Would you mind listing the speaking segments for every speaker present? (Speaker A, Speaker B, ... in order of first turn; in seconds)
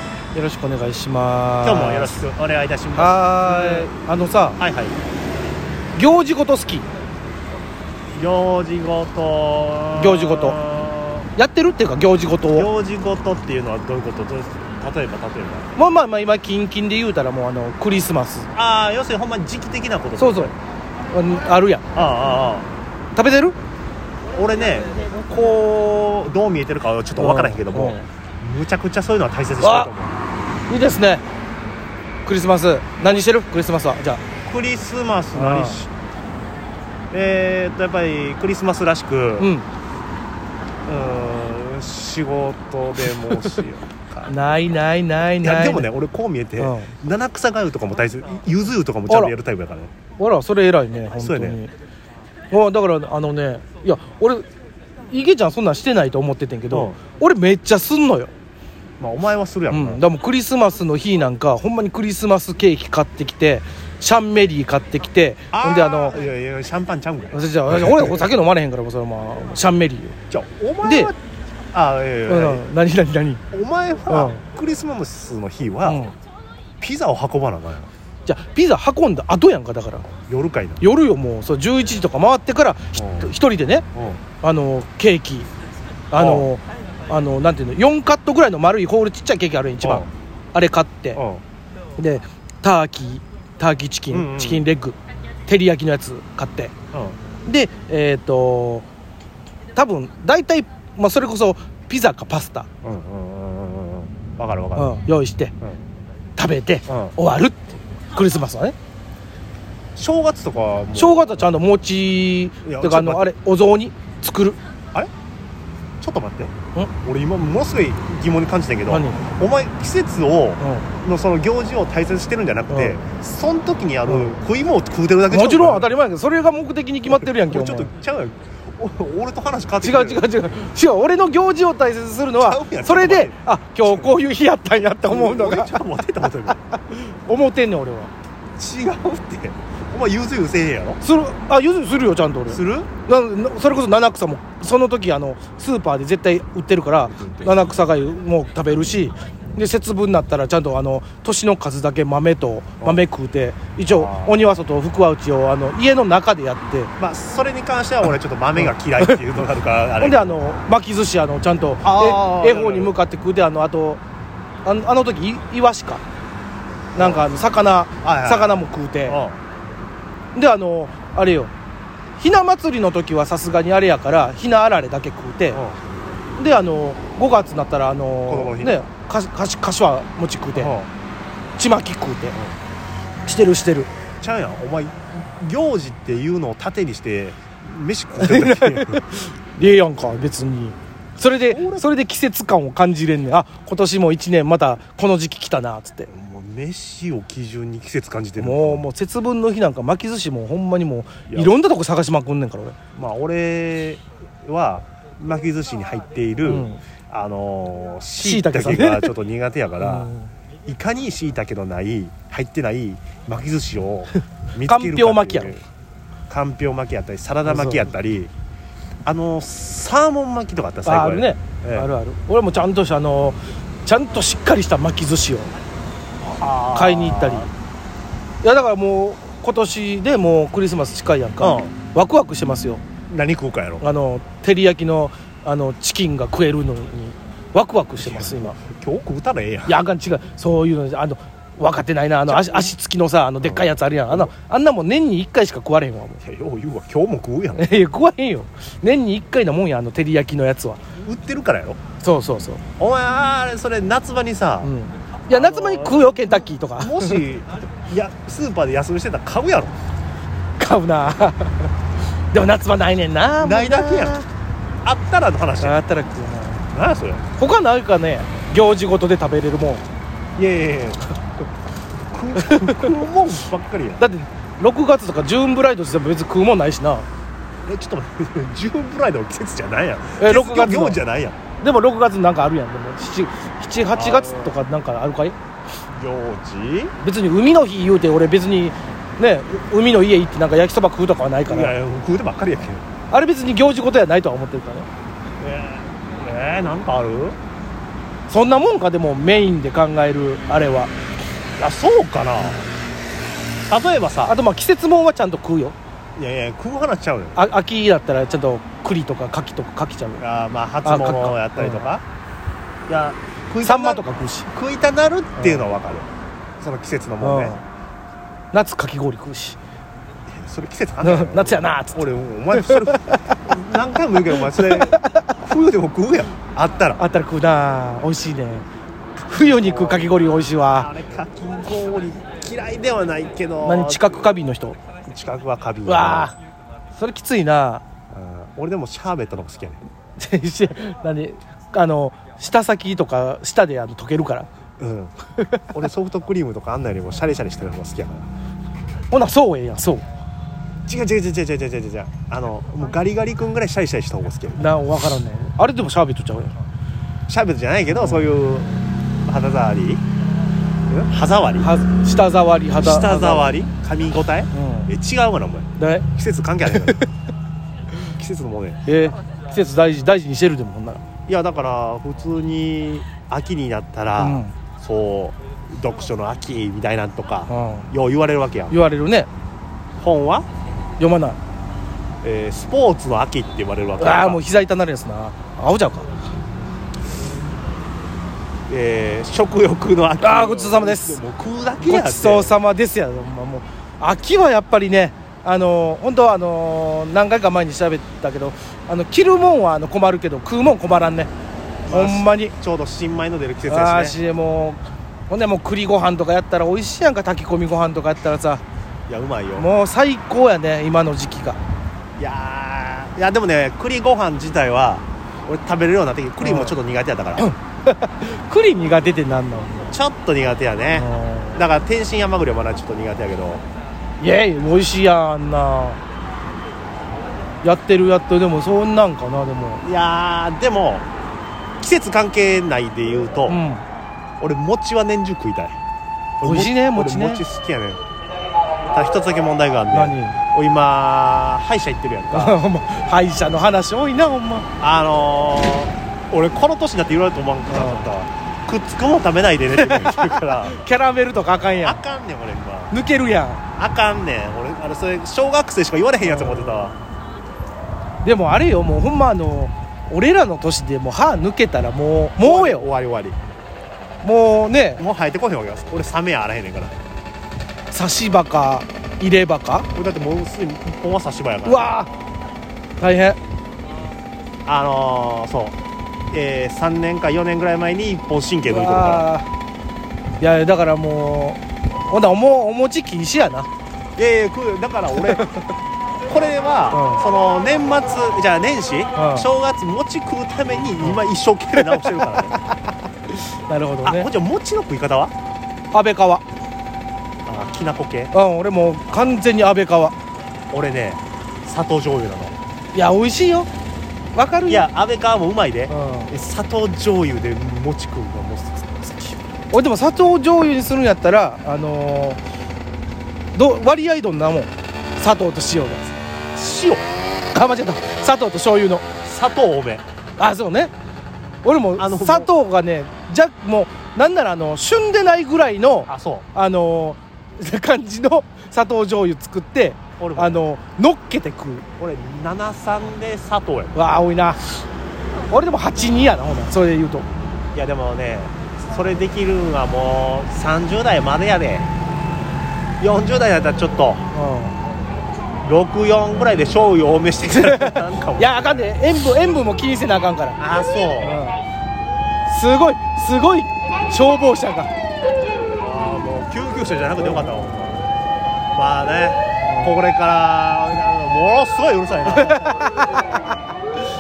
Speaker A: 0.3-2.2, 3.0-4.6, 6.0-6.9, 10.0-10.6, 11.4-12.7, 15.8-18.5, 20.2-20.5, 21.1-21.9, 23.1-23.6, 27.2-28.0, 29.6-29.9, 30.7-31.2, 32.2-34.2, 35.4-35.8, 39.4-39.7, 44.3-45.9, 46.6-46.9, 49.1-49.3, 50.2-51.7, 52.5-54.5, 55.1-58.3, 59.7-66.2, 67.3-70.2, 70.8-71.1, 72.3-73.4, 74.1-74.4, 75.8-76.2, 78.3-80.1, 80.8-83.9, 84.4-85.5, 86.1-91.2, 92.0-96.7, 97.5-98.9, 99.8-102.7, 104.8-105.5, 106.4-108.8, 111.0-114.6, 118.9-119.2, 120.6-120.9, 122.7-123.0, 124.1-124.4, 125.3-127.9, 129.8-135.8, 136.5-138.1, 141.0-156.9, 158.6-159.2, 160.0-164.0, 164.7-166.0, 166.9-169.2, 170.3-171.5, 172.2-175.6, 176.4-180.8, 181.6-182.4, 183.3-183.9, 188.2-196.1, 198.4-202.8, 206.4-206.8, 208.2-209.1, 209.8-210.3, 214.7-215.6, 217.5-217.9, 220.8-225.5, 226.7-227.5, 228.4-232.8, 233.8-238.6, 239.7-246.2, 247.6-250.8, 252.0-252.6, 254.6-257.2, 260.6-261.7, 262.3-264.3, 265.6-266.6, 267.4-269.9, 272.4-272.9, 274.0-277.1, 280.2-281.0, 281.6-285.4, 287.0-291.8, 293.1-294.9, 298.3-300.9, 304.3-305.8, 307.4-310.2, 310.9-311.9, 313.6-314.5, 315.4-315.7, 317.2-317.6, 318.5-319.6, 321.0-323.2, 324.5-325.2, 327.0-328.6, 329.2-330.9, 333.6-334.8, 335.9-336.4, 336.9-337.8, 340.2-344.5, 349.1-350.1, 354.6-356.6, 358.0-358.4, 361.6-363.5, 364.5-364.9, 365.8-366.1, 366.7-367.1, 368.9-371.0, 374.2-374.5, 377.5-377.9, 378.7-379.3, 381.0-381.4, 384.0-386.1, 390.2-391.2, 391.8-401.3, 401.9-402.5, 403.7-408.6, 409.6-411.6, 416.4-416.8, 417.4-419.9, 420.9-421.6, 424.2-426.0, 427.6-429.8, 433.5-433.8, 436.4-437.4, 439.9-440.4, 442.3-444.7, 447.7-448.1, 449.8-452.0, 452.9-453.6, 456.2-456.9, 458.2-462.9, 464.2-465.0, 467.9-469.9, 471.6-472.1, 473.0-473.4, 478.7-479.5, 480.4-483.7, 485.2-485.7, 486.9-487.2, 489.2-489.5, 492.5-494.3, 495.9-496.4, 498.3-500.1, 502.9-503.7, 504.4-504.9, 505.9-506.3, 509.7-512.4, 513.5-516.1, 517.5-519.0, 520.4-520.9, 521.6-531.9, 534.0-534.8, 535.5-537.3, 544.3-544.8, 547.5-550.6, 551.2-551.6, 552.5-554.9, 557.2-557.5, 559.6-560.0, 562.3-563.3
Speaker B: 1.6-3.9, 4.6-5.0, 8.1-11.3, 12.5-15.7, 18.6-20.5, 21.9-22.7, 24.3-30.2, 34.5-35.9, 37.1-39.5, 40.9-44.4, 45.4-49.9, 51.1-51.6, 56.7-57.0, 59.0-60.0, 65.5-68.3, 70.3-71.2, 71.7-72.6, 73.5-76.0, 76.8-77.9, 80.3-80.8, 83.0-83.3, 83.9-84.2, 86.2-86.5, 89.8-90.1, 91.2-91.4, 94.1-94.7, 102.8-105.0, 106.9-107.1, 110.0-111.5, 112.6-113.3, 116.0-125.9, 127.1-130.3, 132.4-134.2, 135.1-136.6, 138.6-141.0, 142.5-142.9, 147.1-147.9, 153.8-154.5, 157.0-160.4, 161.8-163.0, 167.0-167.2, 168.0-169.4, 175.5-175.8, 178.3-178.8, 180.6-180.9, 184.2-189.2, 191.5-191.9, 196.1-198.9, 201.3-201.5, 202.9-210.1, 210.7-215.6, 216.3-218.3, 219.1-221.9, 226.2-227.5, 231.4-231.7, 233.1-233.9, 238.0-239.8, 242.3-242.7, 243.4-244.3, 246.2-247.7, 251.0-251.8, 252.8-254.7, 255.3-259.8, 263.4-264.2, 264.8-265.8, 266.7-267.2, 270.4-271.0, 272.1-274.1, 277.6-281.4, 283.9-284.6, 285.9-286.9, 291.5-292.9, 295.4-297.4, 301.6-302.7, 303.6-304.4, 306.2-307.4, 310.2-312.0, 312.9-317.6, 320.3-327.0, 329.4-330.1, 330.7-334.4, 335.1-336.3, 338.1-339.9, 344.8-345.1, 345.7-348.3, 350.9-354.8, 357.3-358.7, 359.2-360.0, 360.9-361.7, 362.8-367.0, 368.1-368.8, 371.3-378.8, 380.0-380.5, 382.2-384.4, 388.7-392.5, 401.9-404.2, 409.1-409.7, 412.2-417.5, 419.9-423.6, 429.8-431.1, 431.8-433.6, 434.4-435.8, 436.4-438.0, 438.9-442.6, 444.8-450.8, 451.8-453.0, 453.8-457.0, 462.4-463.4, 465.0-466.9, 469.9-471.9, 474.7-475.8, 476.3-479.3, 484.2-485.4, 486.3-492.5, 494.0-495.3, 497.5-498.3, 500.7-502.6, 504.7-509.4, 516.5-517.1, 519.2-520.0, 522.0-522.5, 526.1-526.5, 530.2-530.7, 532.0-534.0, 537.7-541.9, 543.0-544.2, 545.6-549.0, 550.6-551.4, 555.8-558.0, 558.7-562.7